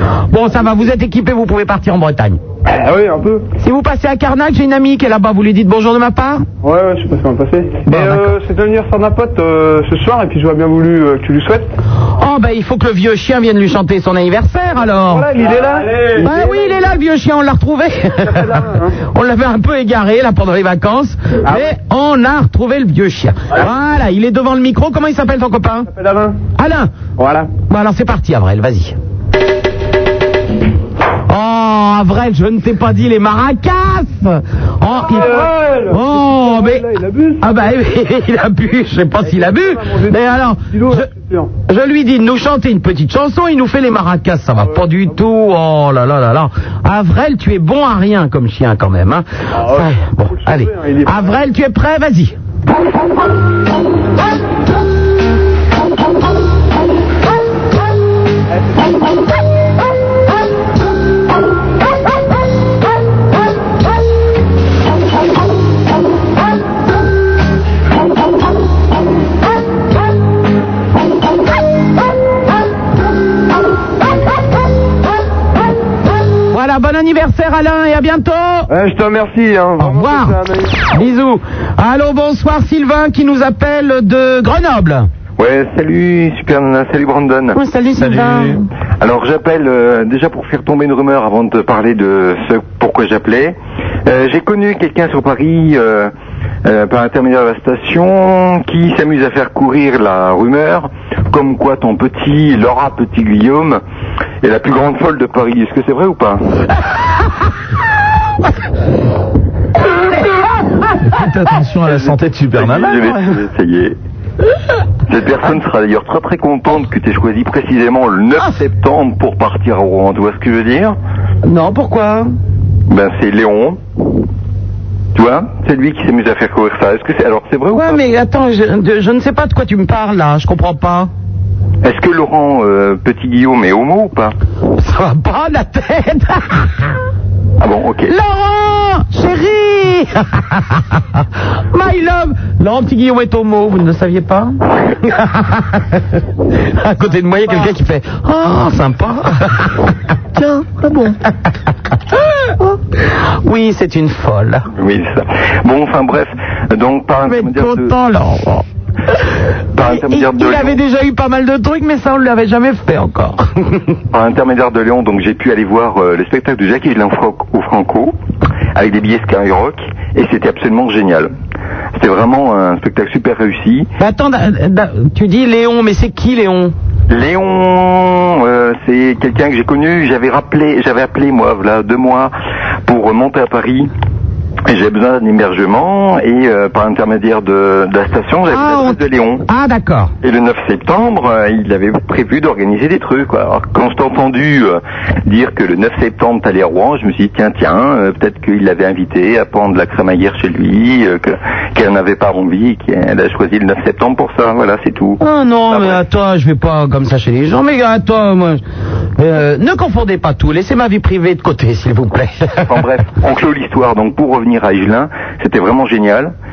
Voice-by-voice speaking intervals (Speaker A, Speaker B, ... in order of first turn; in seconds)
Speaker A: 0.3-2.4, 3.6-6.4, 7.9-8.3, 12.2-15.3, 16.2-25.9, 26.6-26.9, 27.7-28.9, 31.3-36.9, 37.4-41.1, 41.7-52.4, 76.5-78.7, 79.8-85.1, 87.5-88.6, 121.4-122.3, 127.7-131.1, 134.8-136.9, 138.1-146.0, 146.6-151.2, 152.5-154.7, 157.2-158.6, 159.8-163.8, 174.0-176.7, 188.5-190.1, 205.2-208.6, 209.2-212.6
Speaker B: 2.6-3.5, 6.6-11.7, 14.8-16.8, 18.2-18.9, 21.4-21.7, 25.9-26.4, 27.2-27.5, 34.9-37.7, 39.2-41.5, 44.5-45.2, 49.5-51.4
Speaker C: 85.4-87.6, 89.0-96.1, 96.6-103.8, 104.4-106.6, 111.8-114.0, 115.1-121.0, 122.9-123.8, 125.1-128.1, 131.8-134.3, 137.6-138.1, 154.8-157.9, 159.7-160.8, 164.1-168.1, 168.7-171.3, 171.9-173.9, 177.1-182.3, 182.8-183.9, 184.7-189.4, 190.2-206.0, 212.6-216.3
Speaker D: 88.0-88.6, 111.0-113.2